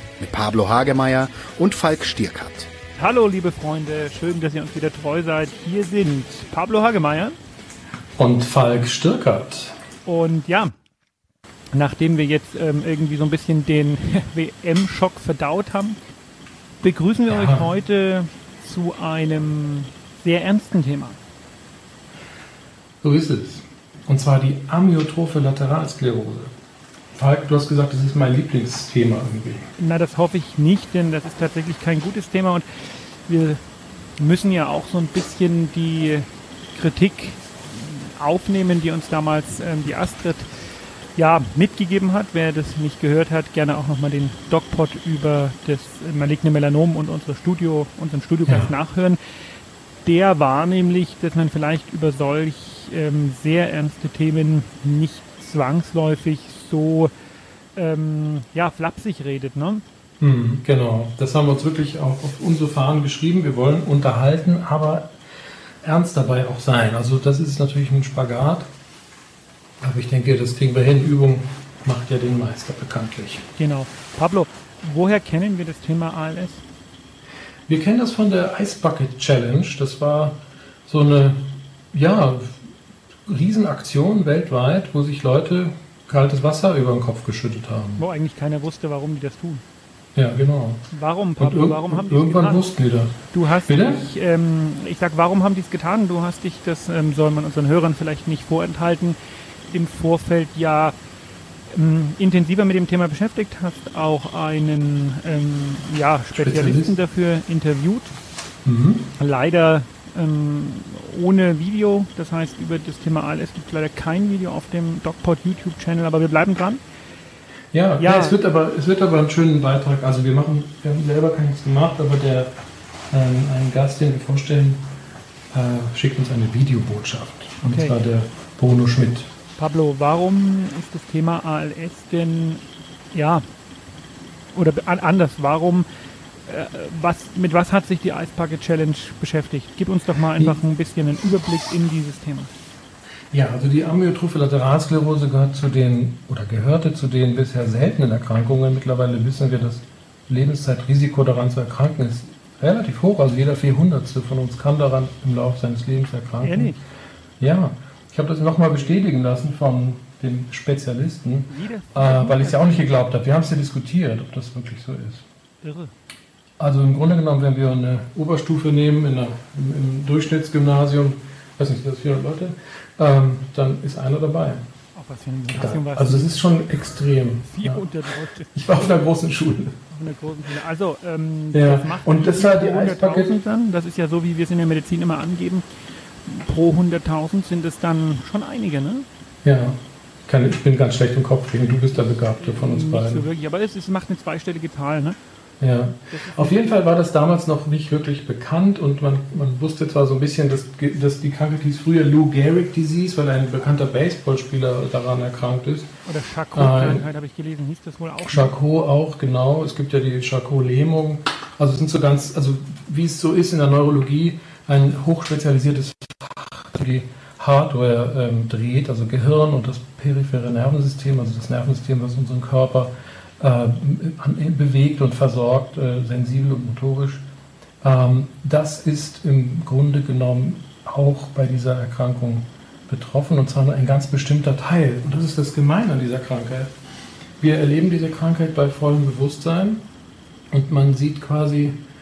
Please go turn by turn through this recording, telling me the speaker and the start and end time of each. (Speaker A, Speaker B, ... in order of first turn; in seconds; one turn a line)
Speaker A: 0.2-2.7
Speaker B: 3.0-7.4
Speaker C: 8.2-9.8
Speaker B: 10.1-10.7
Speaker B: 11.7-16.0
Speaker B: 16.8-21.2
Speaker C: 17.3-17.7
Speaker C: 23.0-26.5
Speaker C: 27.1-29.7
Speaker B: 29.8-33.6
Speaker B: 34.2-40.5
Speaker B: 41.1-49.2
Speaker C: 48.5-48.7
Speaker B: 50.0-57.1
Speaker B: 57.8-59.8
Speaker C: 60.2-65.2
Speaker C: 65.8-68.7
Speaker C: 69.8-73.5
Speaker B: 73.6-76.6
Speaker C: 77.7-82.7
Speaker C: 83.3-88.0
Speaker B: 88.0-89.6
Speaker C: 90.2-90.8
Speaker B: 90.9-92.6
Speaker C: 91.4-94.0
Speaker B: 93.3-99.2
Speaker B: 99.7-101.0
Speaker B: 101.7-108.2
Speaker C: 106.3-107.0
Speaker C: 108.7-109.1
Speaker B: 109.2-116.8
Speaker C: 117.7-122.5
Speaker B: 118.0-118.4
Speaker C: 123.1-124.8
Speaker C: 125.5-129.3
Speaker B: 127.6-128.0
Speaker B: 129.6-133.4
Speaker B: 134.5-135.9
Speaker B: 136.5-142.5
Speaker C: 143.3-156.8
Speaker B: 156.4-156.8
Speaker C: 157.4-165.2
Speaker B: 161.5-163.0
Speaker B: 165.6-165.9
Speaker C: 166.6-174.6
Speaker B: 174.9-176.3
Speaker C: 175.5-177.9
Speaker B: 177.5-178.6
Speaker C: 178.5-179.8
Speaker B: 179.9-185.7
Speaker C: 181.5-183.4
Speaker B: 186.2-189.1
Speaker C: 189.4-193.3
Speaker B: 192.4-195.2
Speaker C: 195.6-205.9
Speaker B: 196.1-196.6
Speaker B: 206.1-208.6
Speaker C: 206.5-207.0
Speaker C: 208.3-227.2
Speaker C: 227.8-236.7
Speaker C: 237.4-239.8
Speaker C: 240.5-241.8